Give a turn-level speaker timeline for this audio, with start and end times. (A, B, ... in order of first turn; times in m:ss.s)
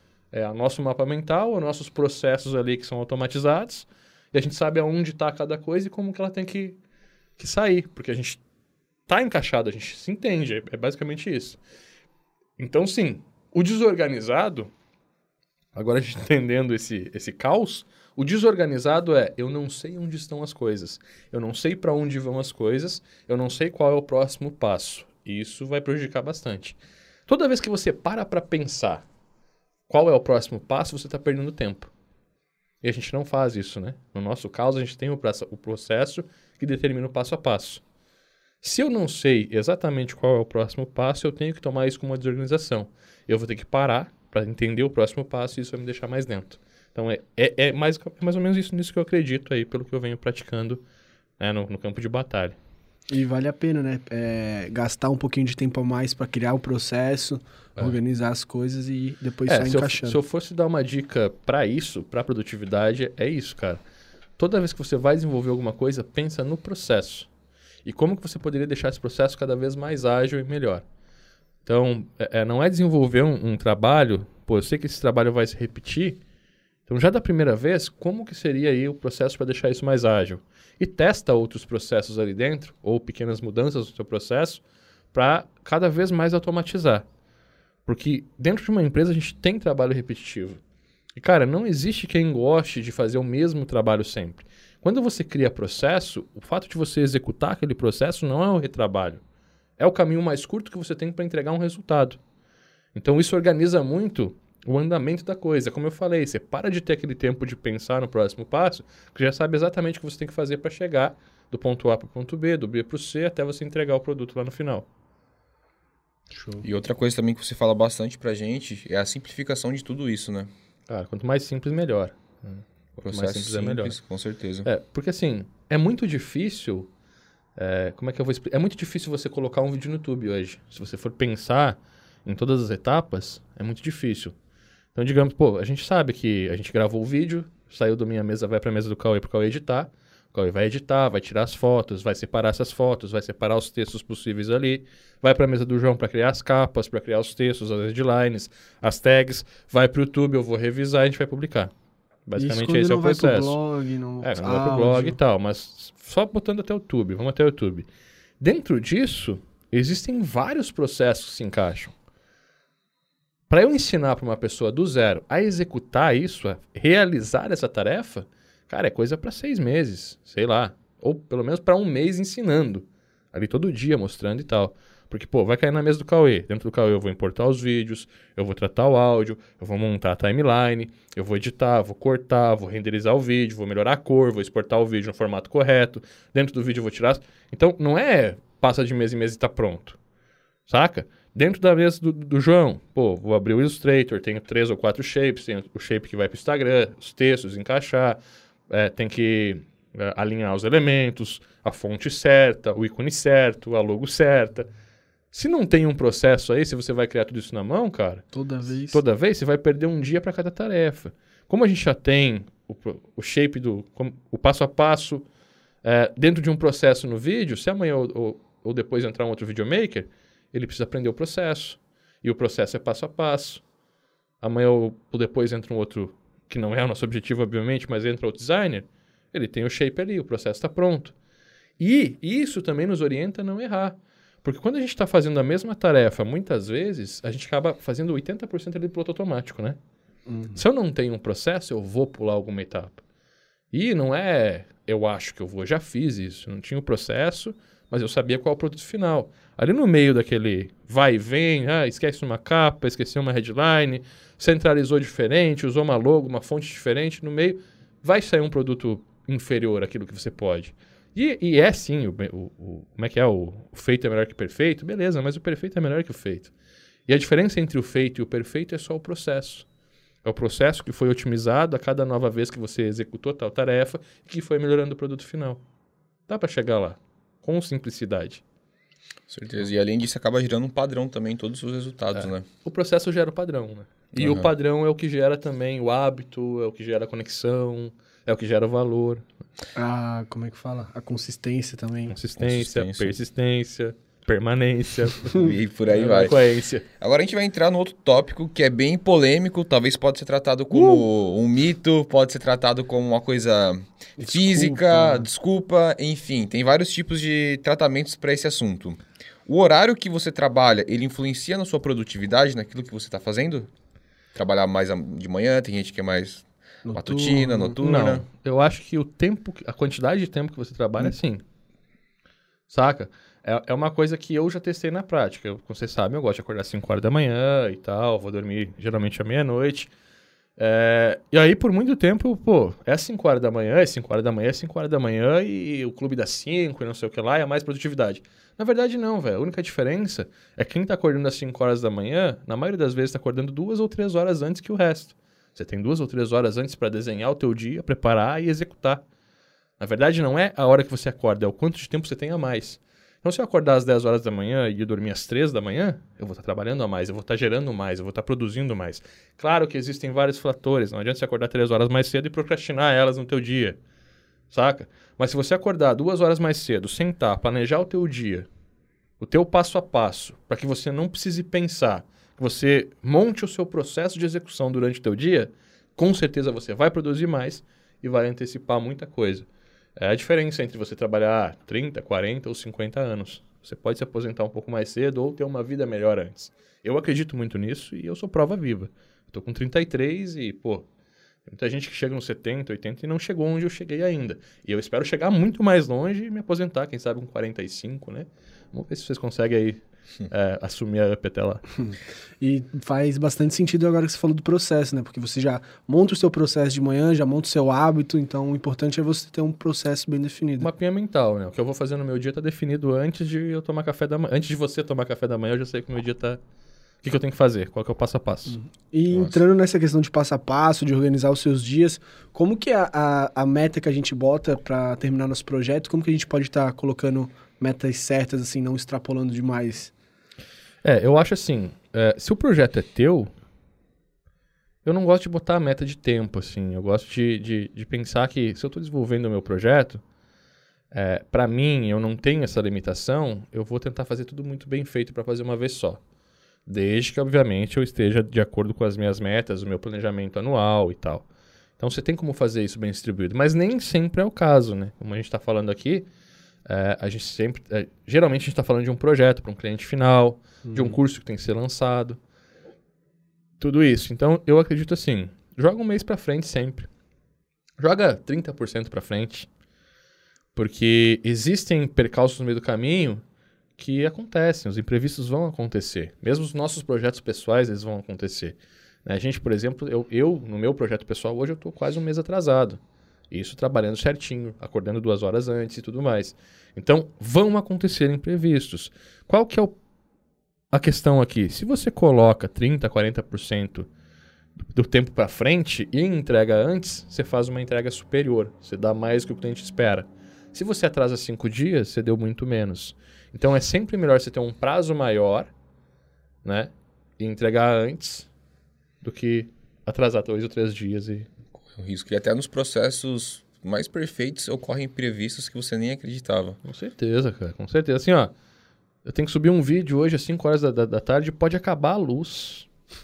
0:00.3-0:06.8 A
0:07.4-0:08.4 A
0:09.1-0:11.6 A
0:12.6-0:14.7 A
0:15.8-0:29.0 A
0:29.9-0:31.9 A
0:32.8-0:37.8 A
0:38.6-0:50.8 A
0:51.4-0:52.6 A
0:53.1-1:00.2 B
0:59.5-1:03.8 A
1:04.4-1:07.3 A
1:07.8-1:10.8 A
1:11.6-1:16.2 A
1:16.9-1:24.6 A
1:25.1-1:27.0 A
1:27.9-1:30.6 A
1:31.2-1:39.2 A
1:39.8-1:42.2 A
1:42.9-1:54.9 A
1:56.3-1:56.6 B
1:56.6-2:00.5 C
2:00.9-2:04.0 A
2:03.0-2:04.7 C
2:04.6-2:06.9 A
2:07.6-2:14.3 A
2:15.0-2:31.7 A
2:32.3-2:33.6 A
2:32.4-2:35.2 B
2:34.2-2:37.9 A
2:38.4-2:41.9 A
2:43.5-3:10.0 A
3:10.7-3:24.7 A
3:25.3-3:28.2 A
3:28.3-3:29.0 B
3:28.9-3:35.2 A
3:35.8-3:43.6 A
3:44.4-3:51.1 A
3:51.8-3:59.8 A
4:00.3-4:00.6 B
4:00.6-4:03.0 A
4:03.7-4:26.5 A
4:27.1-4:29.7 A
4:30.2-4:35.6 A
4:36.3-4:38.4 A
4:39.3-4:42.4 C
4:42.2-4:49.2 A
4:44.2-4:44.5 C
4:49.8-4:52.1 B
4:52.1-4:56.9 A
4:52.4-4:53.2 C
4:55.3-4:56.4 C
4:57.0-5:13.7 C
5:00.7-5:01.0 B
5:04.2-5:05.3 B
5:14.4-5:18.2 C
5:16.8-5:17.8 B
5:17.8-5:21.4 A
5:22.7-5:29.9 A
5:30.6-5:49.0 A
5:49.8-6:03.8 A
6:04.5-6:08.5 A
6:09.2-6:19.5 A
6:20.0-6:30.9 A
6:31.5-6:41.6 A
6:41.8-6:50.7 B
6:50.6-6:56.4 A
6:57.0-6:58.6 A
6:58.5-7:09.9 B
6:59.1-6:59.4 C
7:10.8-7:13.3 A
7:14.8-7:20.0 A
7:20.9-7:26.0 A
7:26.7-7:31.3 A
7:31.8-7:36.1 A
7:36.7-7:42.2 A
7:40.7-7:41.0 B
7:43.6-7:46.9 A
7:47.8-7:49.5 A
7:50.6-7:53.2 A
7:53.8-8:02.8 A
8:03.3-8:09.8 A
8:10.7-8:13.9 A
8:14.6-8:25.5 A
8:26.4-8:28.3 A
8:29.0-8:31.3 A
8:31.7-8:36.6 C
8:36.6-8:38.3 A
8:39.0-8:42.7 A